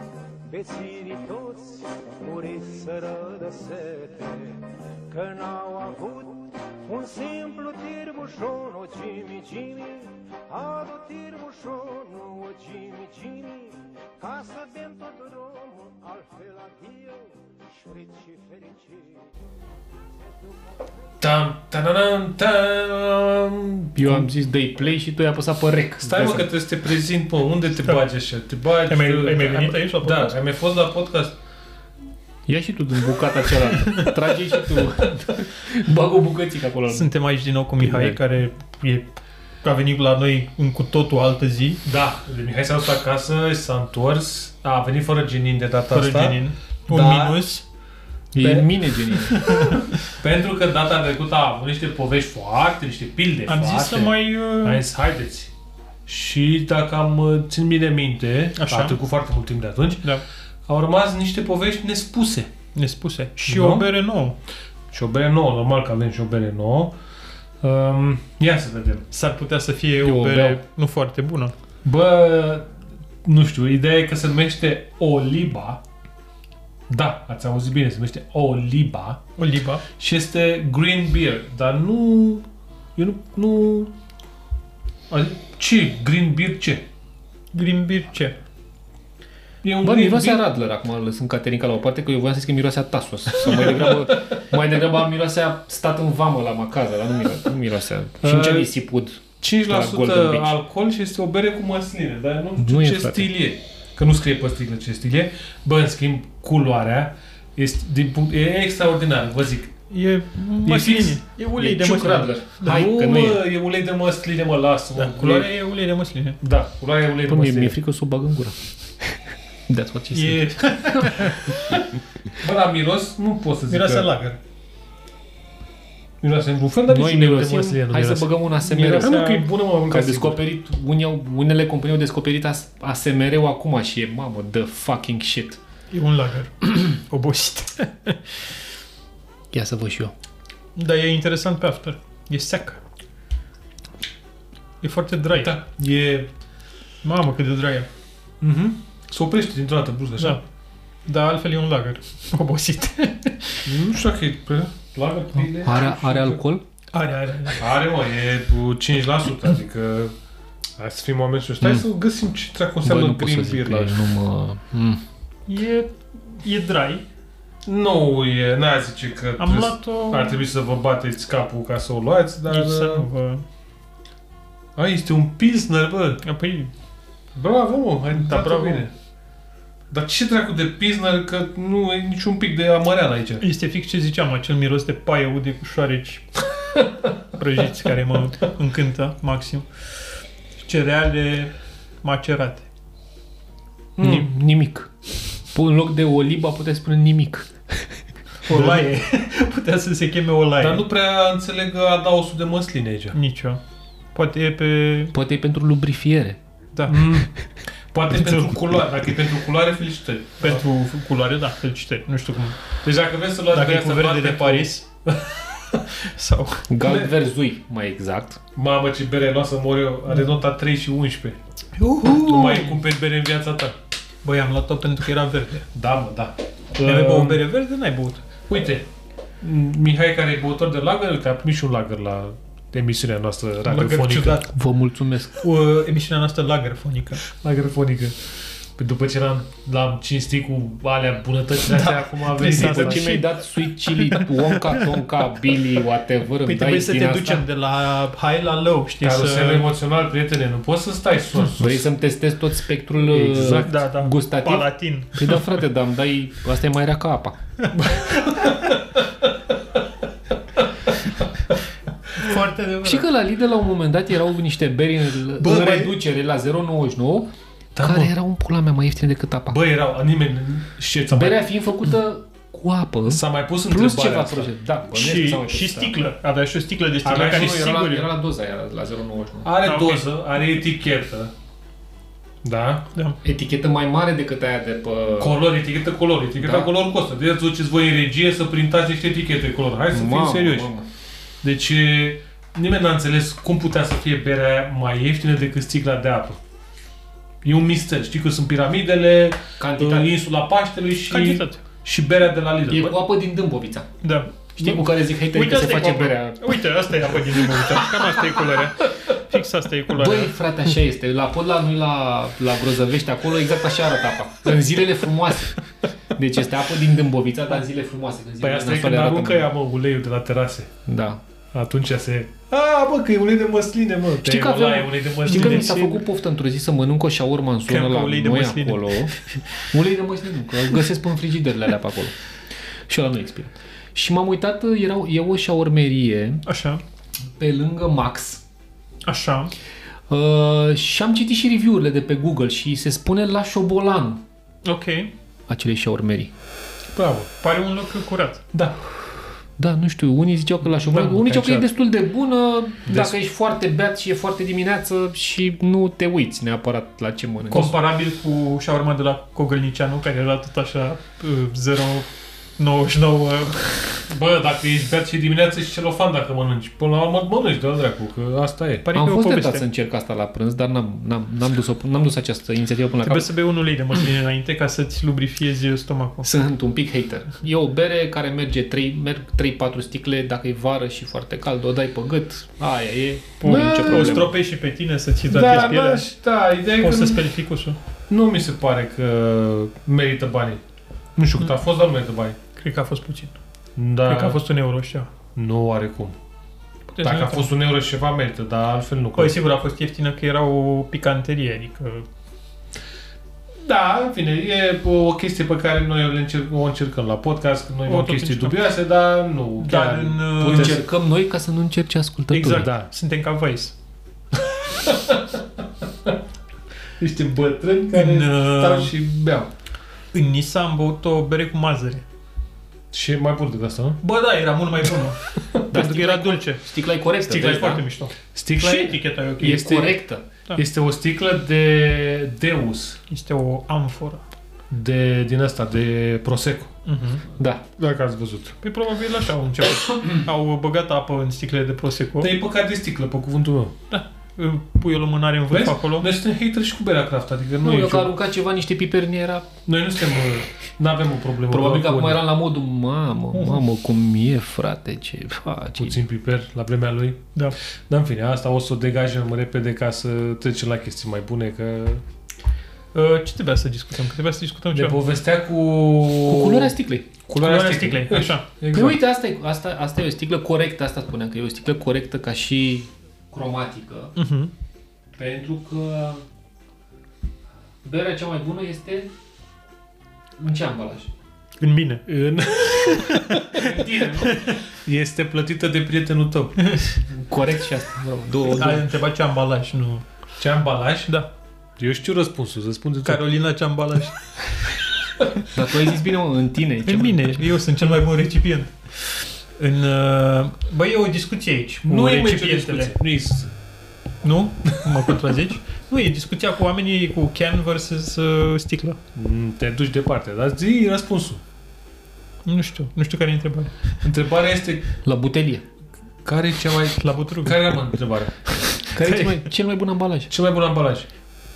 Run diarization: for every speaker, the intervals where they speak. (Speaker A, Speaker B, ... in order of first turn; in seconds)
Speaker A: 0.5-19.3
Speaker B: 21.2-24.3, 26.0-31.4, 41.8-47.4, 50.1-55.5, 56.0-60.1, 60.7-62.5, 63.5-63.9, 64.9-66.9, 67.6-69.0, 71.8-72.7, 73.2-75.8, 76.9-79.2, 80.0-83.9, 85.1-86.8, 89.6-90.4, 93.4-94.4, 98.2-98.7, 99.4-109.8, 110.6-111.2, 112.6-115.5, 116.4-117.8, 122.4-124.1, 126.2-130.4, 145.4-146.3, 148.4-150.4, 153.7-156.4, 157.6-160.1, 160.8-164.0, 167.7-173.1, 174.8-176.2, 177.3-178.9, 179.9-183.4, 200.6-203.2, 206.9-207.3, 207.9-210.6, 212.8-215.9, 216.8-217.1, 218.5-221.4, 222.1-223.8, 225.7-227.4, 228.5-228.9, 229.4-234.4, 237.3-238.2, 238.8-243.2, 249.0-251.9, 253.0-253.8, 258.0-259.0, 265.4-265.9, 267.7-268.1, 269.5-271.4, 273.1-274.5, 277.0-277.7, 279.4-281.3, 282.4-282.8, 285.2-290.7, 291.4-296.4, 297.4-303.0, 318.4-320.7, 321.5-325.8, 346.9-347.3, 350.6-351.7, 352.9-353.1, 364.1-368.9, 383.4-384.2, 385.3-387.3, 388.1-390.6, 391.1-392.4, 393.8-394.4, 395.3-396.1, 397.0-399.4, 403.6-410.9, 412.6-412.9, 414.5-415.4, 417.0-419.5, 422.9-424.0, 428.3-429.0, 430.5-433.0, 434.7-436.7, 437.8-438.5, 442.2-443.7, 445.5-448.1, 449.6-452.2, 455.8-457.2, 457.9-462.0, 464.7-466.7, 467.3-469.0, 475.2-476.1, 482.1-484.2, 484.7-486.6, 490.4-491.2, 491.8-493.2, 501.8-503.5, 504.7-505.0, 509.1-511.4, 514.0-514.8, 516.2-518.4, 520.3-521.1
Speaker C: 23.9-26.5, 32.5-37.1, 37.8-38.2, 48.3-49.5, 70.0-70.6, 89.8-100.5, 102.6-103.3, 111.5-113.4, 117.3-119.2, 119.7-121.4, 126.9-135.6, 139.5-140.1, 155.6-156.6, 162.8-165.0, 194.0-194.9, 195.5-197.8, 198.5-198.8, 205.1-206.4, 216.7-218.4, 234.5-235.4, 242.4-247.4, 251.6-257.4, 262.8-269.6, 271.1-276.0, 277.0-279.5, 283.2-285.4, 286.4-286.7, 289.9-290.9, 299.6-300.1, 302.7-303.9, 304.6-308.4, 309.9-315.6, 316.1-319.5, 320.9-321.2, 324.2-332.1, 332.9-336.4, 337.4-338.4, 340.1-344.2, 345.5-346.3, 349.6-357.7, 368.9-373.3, 376.2-384.3, 410.4-412.7, 425.7-427.8, 429.4-430.2, 437.4-437.6, 447.6-449.5, 451.5-456.0, 466.2-467.1, 468.7-474.1, 477.8-479.1, 480.4-481.1, 483.5-484.4, 487.0-488.8, 495.5-497.4, 515.0-515.6, 518.8-520.3
Speaker D: 28.9-30.3, 36.9-41.8, 45.9-47.6, 48.4-50.0, 53.5-54.8, 58.6-59.0, 62.7-64.3, 69.1-71.5, 79.4-79.8, 87.5-88.4, 109.9-112.8, 115.0-116.4, 120.1-121.8, 123.7-124.4, 128.9-129.4, 135.9-138.4, 140.8-142.8, 144.8-145.5, 147.0-147.9, 151.1-153.7, 156.9-157.7, 165.5-167.0, 169.4-170.4, 172.5-173.4, 176.2-176.7, 178.1-178.9, 183.4-186.4, 187.3-189.7, 190.6-192.6, 198.5-200.8, 203.1-203.6, 204.1-205.1, 206.7-207.3, 208.1-208.6, 210.4-212.6, 213.5-214.8, 215.9-216.6, 221.8-222.8, 224.2-225.7, 226.8-228.2, 233.7-234.5, 235.4-237.3, 241.7-245.1, 246.4-249.7, 253.5-255.5, 257.6-258.6, 262.1-263.1, 274.9-278.1, 279.6-280.1, 301.1-301.6, 304.0-310.4, 325.2-326.0, 327.7-329.4, 336.4-336.8, 339.1-339.5, 344.6-345.1, 347.4-348.4, 357.5-364.0, 368.8-369.6, 373.1-376.3, 383.4-386.1, 386.7-387.8, 392.6-393.4, 394.1-395.1, 396.9-397.4, 399.1-402.1, 407.9-408.7, 409.6-410.8, 412.3-413.8, 417.9-418.9, 420.1-422.0, 424.0-426.7, 427.2-430.6, 433.1-434.2, 436.9-437.2, 438.6-442.3, 443.9-446.1, 453.3-453.6, 462.9-465.0, 467.4-468.4, 474.1-474.5, 481.6-482.1, 482.7-483.6, 484.2-484.6, 486.6-486.9, 488.5-490.0, 493.0-494.8, 496.8-502.9, 504.2-509.0, 512.4-514.0, 517.0-517.8